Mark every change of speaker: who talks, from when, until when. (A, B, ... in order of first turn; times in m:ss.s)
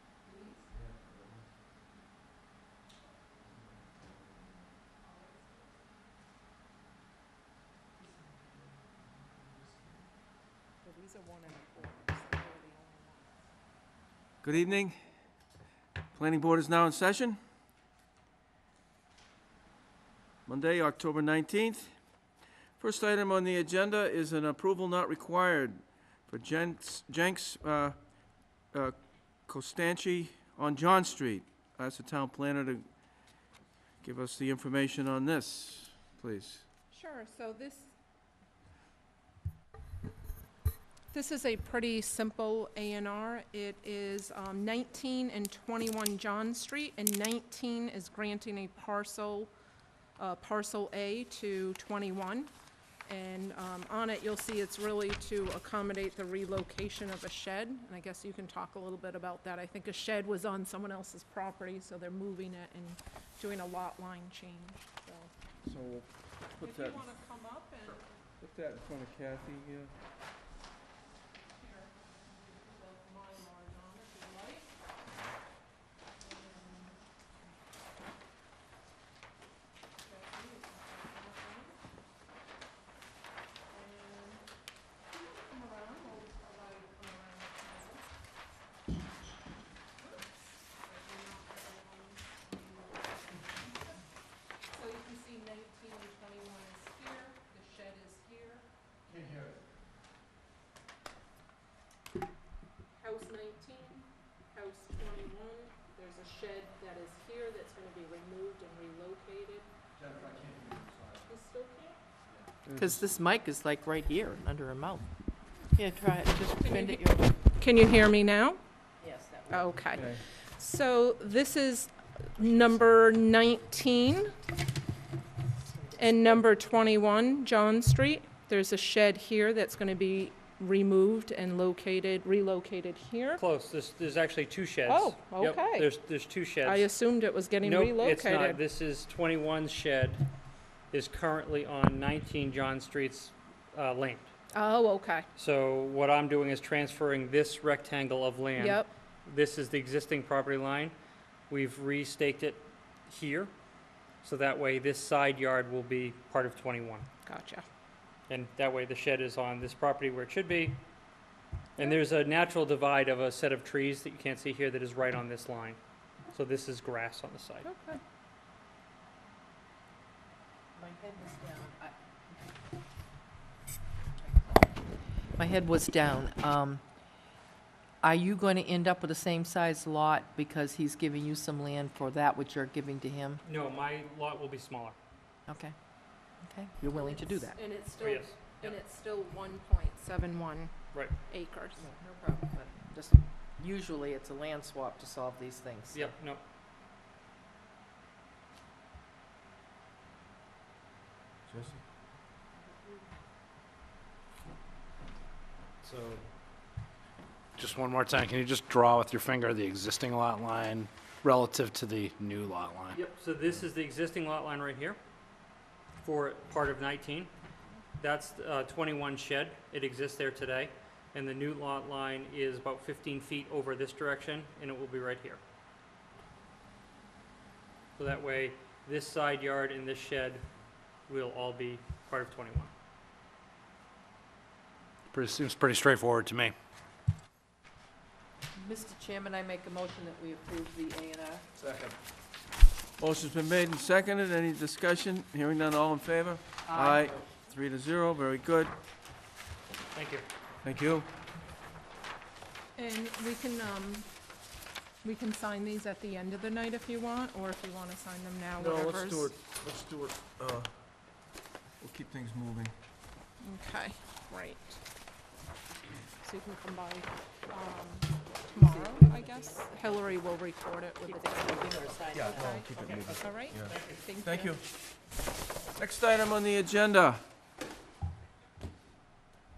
0:00.2-0:00.7 A
0:00.7-0:01.4 B
0:03.4-0:04.2 B
0:05.0-0:05.5 A
0:10.8-0:13.4 A
0:14.4-0:15.0 B
0:16.1-0:17.4 B
0:20.4-0:21.9 B
0:22.8-0:28.0 B
0:29.5-0:32.8 B
0:34.0-0:36.6 B
0:36.9-0:37.9 A
0:41.1-0:49.5 A
0:50.2-0:52.5 A
0:53.0-1:05.3 A
1:05.6-1:07.0 B
1:06.6-1:08.0 A
1:08.4-1:09.9 B
1:11.5-1:14.7 A
1:16.2-1:17.0 A
1:20.0-1:21.8 A
1:23.7-1:24.5 A
1:25.1-1:28.1 A
1:30.0-1:33.8 A
1:34.7-1:38.6 A
1:43.0-1:49.7 A
1:50.0-1:51.1 B
1:51.3-1:52.0 A
1:52.6-1:52.9 B
1:52.7-1:55.1 C
1:55.7-1:57.3 C
1:56.6-1:58.6 A
1:59.0-1:59.8 C
1:59.5-2:04.3 A
1:59.9-2:00.2 B
2:06.0-2:13.4 A
2:13.4-2:16.9 D
2:14.9-2:15.9 A
2:16.6-2:18.6 A
2:17.6-2:20.2 D
2:20.9-2:24.3 D
2:24.5-2:25.3 A
2:25.4-2:30.9 D
2:28.6-2:28.9 A
2:31.5-2:33.5 D
2:34.2-2:37.1 D
2:37.2-2:37.6 A
2:38.3-2:40.8 D
2:41.8-2:45.8 D
2:46.3-2:47.7 D
2:47.6-2:48.0 A
2:50.7-2:51.9 C
2:55.4-2:56.8 C
2:58.0-3:03.4 C
3:03.4-3:05.0 D
3:05.5-3:05.7 C
3:06.4-3:07.6 C
3:06.9-3:10.7 A
3:08.0-3:08.8 D
3:11.3-3:11.8 A
3:11.8-3:16.1 C
3:15.9-3:16.4 D
3:21.5-3:21.8 B
3:25.8-3:26.1 D
3:25.8-3:26.2 E
3:27.6-3:33.0 E
3:32.9-3:35.0 D
3:36.0-3:37.3 D
3:38.0-3:45.4 D
3:48.0-3:50.4 D
3:51.1-3:52.7 D
3:55.1-3:56.5 E
3:58.5-4:01.4 C
4:01.6-4:02.0 B
4:03.0-4:08.7 B
4:06.7-4:07.2 C
4:09.9-4:10.2 D
4:10.6-4:11.1 B
4:12.8-4:14.0 A
4:15.0-4:19.3 A
4:18.6-4:20.7 B
4:21.8-4:22.7 B
4:23.4-4:24.8 A
4:26.2-4:34.6 A
4:28.5-4:30.2 C
4:31.0-4:32.6 C
4:32.1-4:34.6 B
4:32.7-4:34.0 D
4:35.8-4:37.2 B